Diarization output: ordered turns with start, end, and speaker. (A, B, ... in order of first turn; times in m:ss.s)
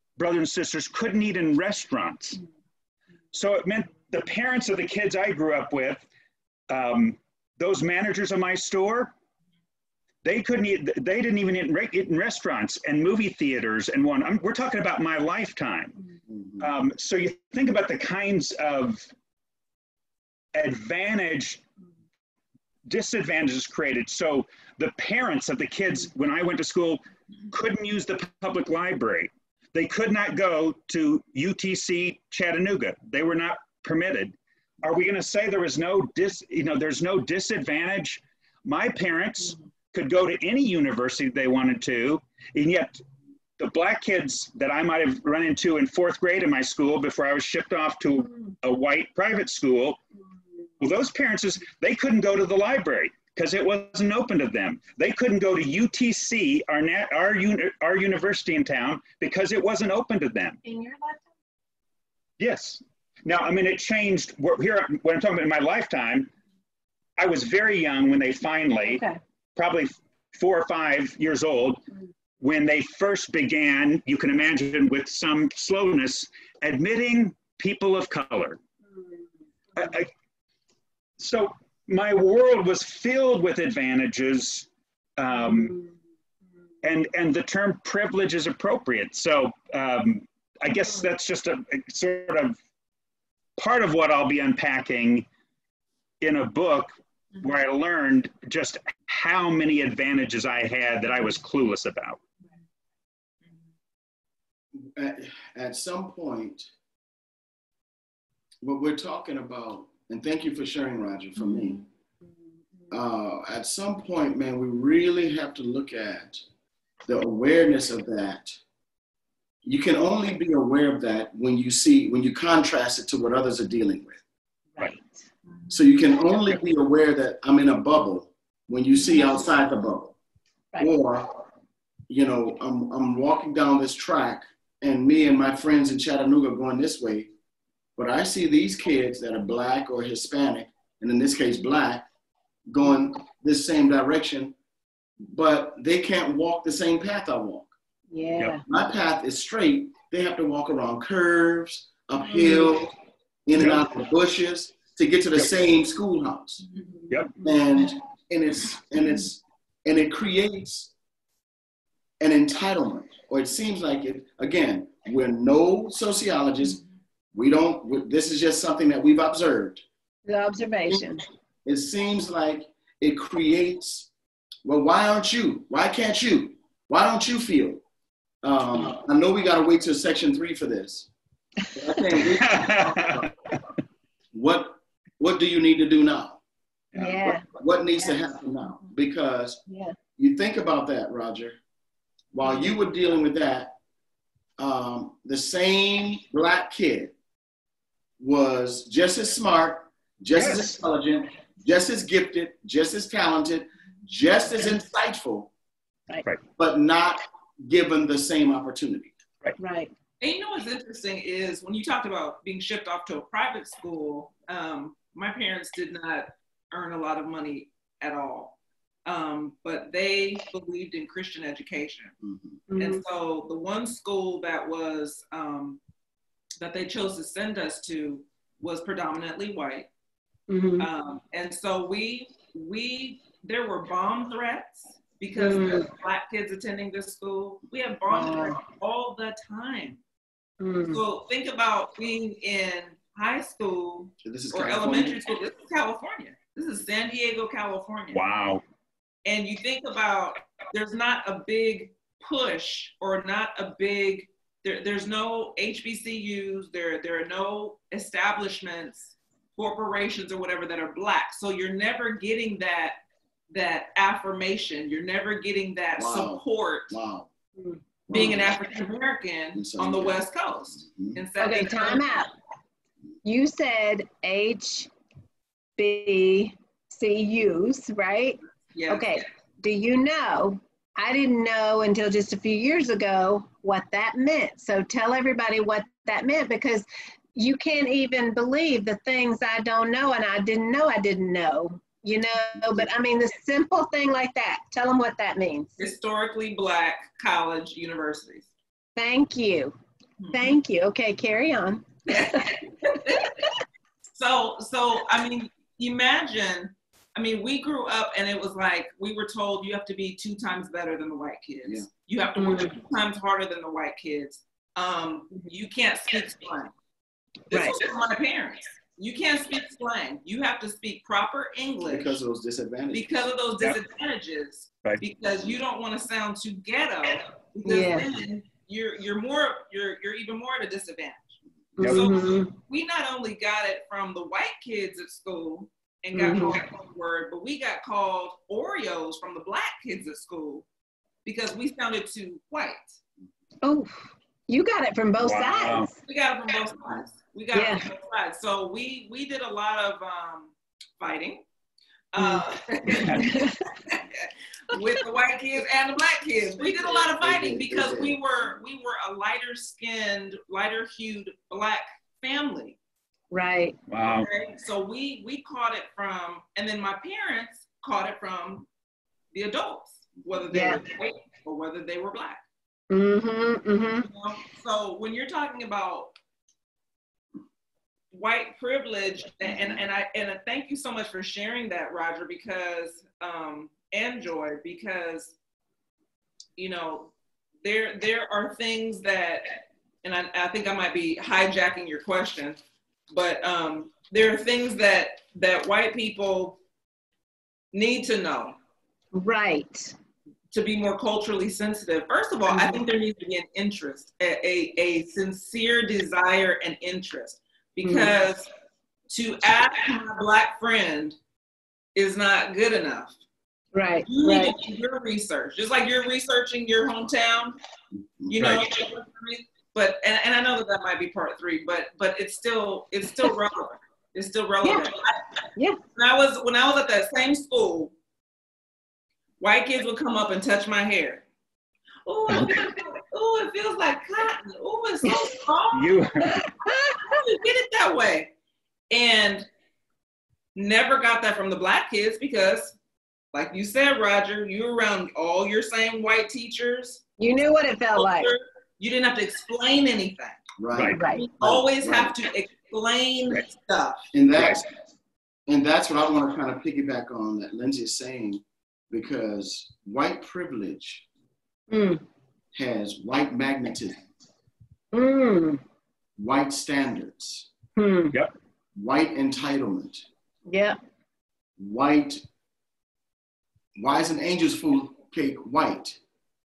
0:00.2-0:02.4 A
0:03.3-0:06.0 A
0:06.7-0:09.1 A
0:10.2-0:16.0 A
0:16.3-0:16.7 B
0:16.6-0:19.1 A
0:20.5-0:21.6 A
0:22.9-0:43.0 A
0:43.6-0:50.0 A
0:50.8-1:00.6 A
1:00.6-1:01.3 C
1:02.4-1:06.3 A
1:07.2-1:09.0 A
1:08.8-1:09.2 C
1:09.6-1:11.8 A
1:12.4-1:18.6 A
1:19.8-1:20.1 A
1:21.2-1:25.8 A
1:26.8-1:32.6 A
1:33.6-1:35.3 A
1:36.2-1:42.2 A
1:44.8-1:46.7 B
1:48.6-1:51.8 B
1:52.9-1:56.4 B
1:57.1-1:58.6 B
1:59.6-2:04.2 B
2:04.8-2:05.0 C
2:05.7-2:10.2 B
2:10.8-2:11.4 B
2:12.1-2:17.3 B
2:18.0-2:22.0 B
2:22.7-2:24.5 B
2:25.2-2:27.7 B
2:28.1-2:28.6 C
2:28.6-2:32.9 B
2:32.3-2:32.7 C
2:33.5-2:36.6 B
2:37.1-2:37.4 A
2:37.4-2:40.9 B
2:42.2-2:46.8 B
2:47.3-2:49.8 B
2:50.2-2:51.2 C
2:51.6-2:54.1 B
2:54.6-2:57.8 B
2:58.4-3:01.1 B
3:01.7-3:03.3 B
3:02.2-3:03.3 A
3:04.3-3:06.4 B
3:06.9-3:07.3 A
3:07.0-3:07.5 C
3:07.5-3:09.6 B
3:09.7-3:10.0 C
3:10.2-3:11.6 B
3:12.3-3:13.8 B
3:14.6-3:17.1 B
3:18.2-3:25.5 B
3:20.4-3:20.8 A
3:26.6-3:29.1 B
3:29.6-3:29.9 C
3:30.2-3:42.1 D
3:42.2-3:42.6 B
3:42.7-3:43.0 C
3:42.8-3:45.8 D
3:46.6-3:49.9 D
3:50.5-3:50.9 C
3:50.8-4:00.0 D
3:55.4-3:55.9 C
3:58.1-3:58.6 C
4:00.6-4:01.0 C
4:00.9-4:08.2 D
4:04.2-4:05.2 B
4:08.1-4:08.6 A
4:09.2-4:23.0 D
4:23.5-4:27.0 D
4:26.0-4:27.3 B
4:28.1-4:28.6 B
4:28.1-4:32.0 D
4:29.6-4:30.2 B
4:30.8-4:31.2 B
4:31.4-4:32.3 C
4:33.2-4:34.9 C
4:35.8-4:55.8 C
4:38.8-4:39.2 D
4:55.8-4:58.5 D
4:59.0-4:59.8 C
5:00.2-5:00.5 D
5:00.3-5:02.6 C
5:02.1-5:03.5 D
5:04.1-5:16.7 D
5:12.4-5:12.7 C
5:17.5-5:17.8 C
5:17.5-5:22.1 D
5:21.9-5:23.3 B
5:22.9-5:40.7 D
5:27.7-5:28.1 C
5:31.8-5:32.0 B
5:31.8-5:32.5 C
5:36.2-5:36.6 C
5:41.2-5:43.0 D
5:43.6-5:45.9 C
5:45.2-5:45.9 A
5:46.1-5:51.4 D
5:47.5-5:47.9 C
5:52.1-6:02.8 D
5:52.2-5:53.6 C
5:56.6-5:58.5 B
6:03.3-6:03.8 C
6:03.9-6:04.3 A
6:04.0-6:08.7 D
6:09.3-6:12.4 D
6:10.5-6:10.8 C
6:12.9-6:14.1 C
6:14.0-6:16.1 D
6:18.1-6:25.4 D
6:26.6-6:32.6 D
6:33.1-6:36.6 D
6:37.7-6:38.6 D
6:39.1-6:40.0 C
6:40.5-6:48.5 D
6:42.5-6:42.8 C
6:47.8-6:48.1 C
6:49.1-6:51.2 D
6:52.0-6:53.2 D
6:53.7-6:54.6 C
6:54.1-6:57.6 D
6:58.0-6:58.4 B
6:58.3-7:05.2 D
6:58.4-6:58.6 A
7:04.6-7:04.9 C
7:06.0-7:07.9 D
7:09.4-7:11.2 D
7:12.1-7:16.1 D
7:12.3-7:12.6 A
7:15.7-7:16.4 A
7:16.2-7:17.2 C
7:17.0-7:18.3 D
7:18.9-7:19.5 D
7:20.6-7:22.8 D
7:23.3-7:27.0 D
7:27.2-7:28.3 C
7:28.0-7:34.0 D
7:30.6-7:32.1 B
7:30.8-7:31.0 A
7:31.0-7:31.2 C
7:34.1-7:34.7 B
7:34.4-7:34.6 A
7:35.5-7:41.0 B
7:41.7-7:42.0 C
7:42.5-7:44.0 B
7:44.9-7:45.6 C
7:46.2-7:47.5 B
7:47.8-7:48.2 C
7:48.8-7:50.0 B
7:50.5-7:50.8 C
7:51.6-7:52.2 B
7:53.8-7:56.0 B